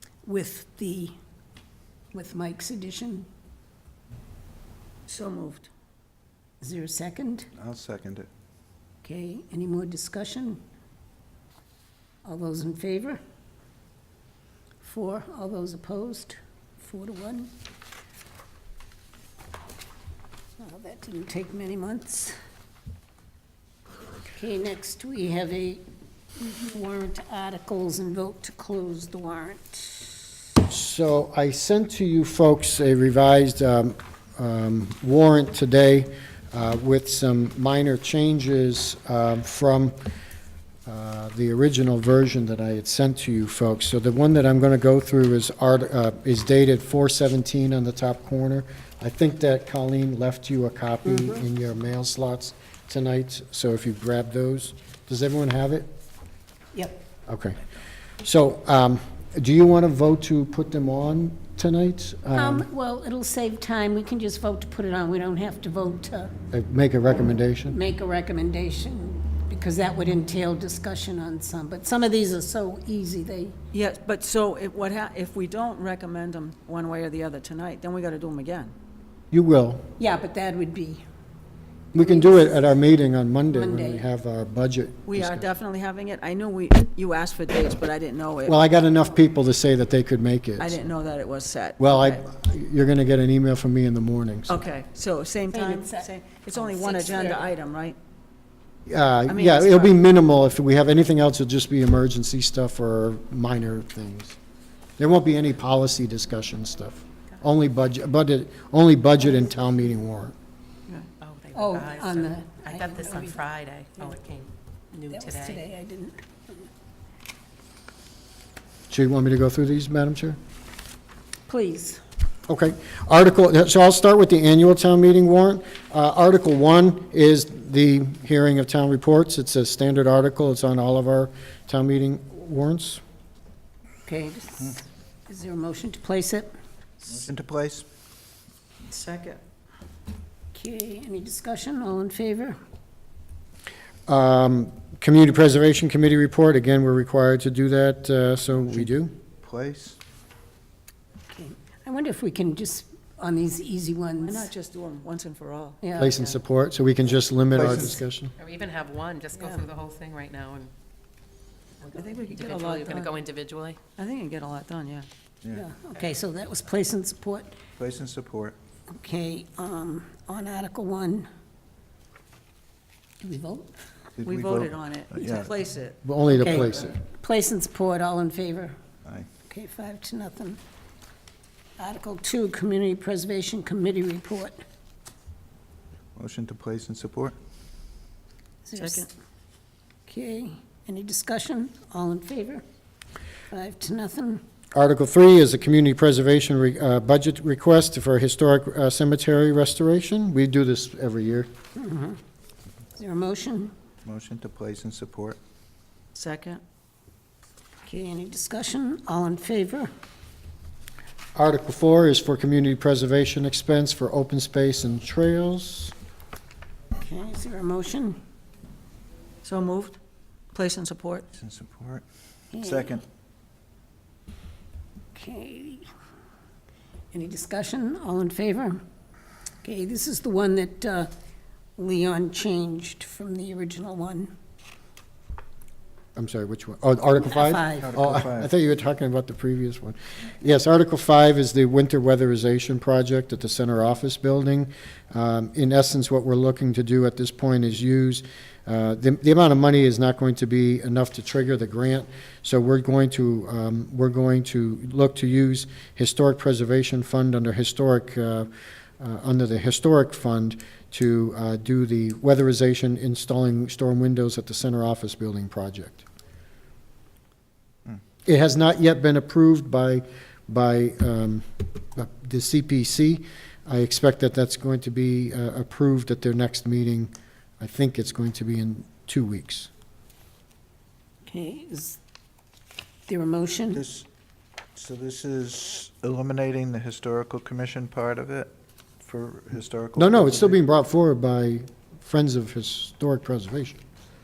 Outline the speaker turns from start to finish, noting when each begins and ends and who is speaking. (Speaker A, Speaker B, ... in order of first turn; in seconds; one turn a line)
Speaker A: 0.3-1.1
Speaker A: 2.1-3.3
Speaker B: 5.1-5.7
Speaker A: 6.6-7.5
Speaker C: 7.5-8.3
Speaker A: 9.0-10.6
Speaker A: 12.2-13.2
Speaker A: 14.8-17.5
Speaker A: 20.6-22.4
Speaker A: 24.4-25.9
Speaker A: 26.4-30.2
Speaker D: 30.7-40.0
Speaker D: 40.9-55.9
Speaker A: 56.7-57.0
Speaker D: 57.3-57.6
Speaker D: 58.2-62.7
Speaker A: 62.3-66.3
Speaker D: 66.5-67.8
Speaker A: 67.7-73.6
Speaker B: 73.7-78.7
Speaker D: 79.3-79.8
Speaker A: 80.0-81.0
Speaker D: 81.9-85.5
Speaker A: 82.0-82.6
Speaker A: 83.5-84.0
Speaker B: 85.1-88.6
Speaker D: 88.5-90.8
Speaker B: 90.6-92.2
Speaker D: 91.8-94.7
Speaker B: 94.5-98.0
Speaker A: 95.5-97.5
Speaker D: 98.9-104.4
Speaker B: 99.3-100.0
Speaker D: 105.0-110.3
Speaker E: 111.2-115.6
Speaker A: 111.5-113.4
Speaker A: 115.1-116.7
Speaker D: 118.9-120.4
Speaker A: 121.5-122.0
Speaker D: 122.5-133.0
Speaker A: 134.1-136.5
Speaker C: 137.1-137.9
Speaker B: 138.9-139.4
Speaker A: 140.5-142.6
Speaker D: 144.1-149.1
Speaker C: 148.5-150.0
Speaker A: 151.3-154.5
Speaker B: 154.2-155.8
Speaker A: 155.8-156.2
Speaker D: 156.0-158.3
Speaker C: 157.5-158.0
Speaker E: 158.4-160.7
Speaker E: 161.8-163.8
Speaker B: 161.9-163.1
Speaker B: 164.0-165.1
Speaker A: 165.5-167.6
Speaker C: 167.8-168.6
Speaker A: 168.9-171.3
Speaker A: 173.2-173.8
Speaker C: 174.2-175.5
Speaker B: 174.2-176.0
Speaker D: 176.0-177.0
Speaker A: 176.3-178.8
Speaker A: 179.4-180.6
Speaker A: 181.8-184.6
Speaker C: 186.2-187.3
Speaker A: 188.7-189.1
Speaker B: 188.8-189.1
Speaker A: 190.1-192.6
Speaker A: 193.5-194.4
Speaker D: 194.8-201.5
Speaker A: 201.8-202.2
Speaker A: 203.0-203.7
Speaker C: 204.0-205.4
Speaker B: 206.1-206.6
Speaker A: 207.9-209.9
Speaker D: 211.4-215.9
Speaker A: 217.0-218.2
Speaker B: 219.4-220.0
Speaker B: 220.5-221.3
Speaker C: 221.3-222.0
Speaker A: 222.5-223.0
Speaker C: 222.6-223.0
Speaker A: 225.1-225.9
Speaker A: 227.1-228.8
Speaker A: 229.6-231.1
Speaker A: 231.8-234.3
Speaker D: 236.2-258.5
Speaker A: 237.2-237.9
Speaker C: 237.8-238.5
Speaker D: 259.0-266.0
Speaker D: 268.3-279.7
Speaker A: 281.3-282.0
Speaker A: 283.1-283.8
Speaker C: 283.7-284.1
Speaker C: 284.8-290.6
Speaker D: 290.0-293.8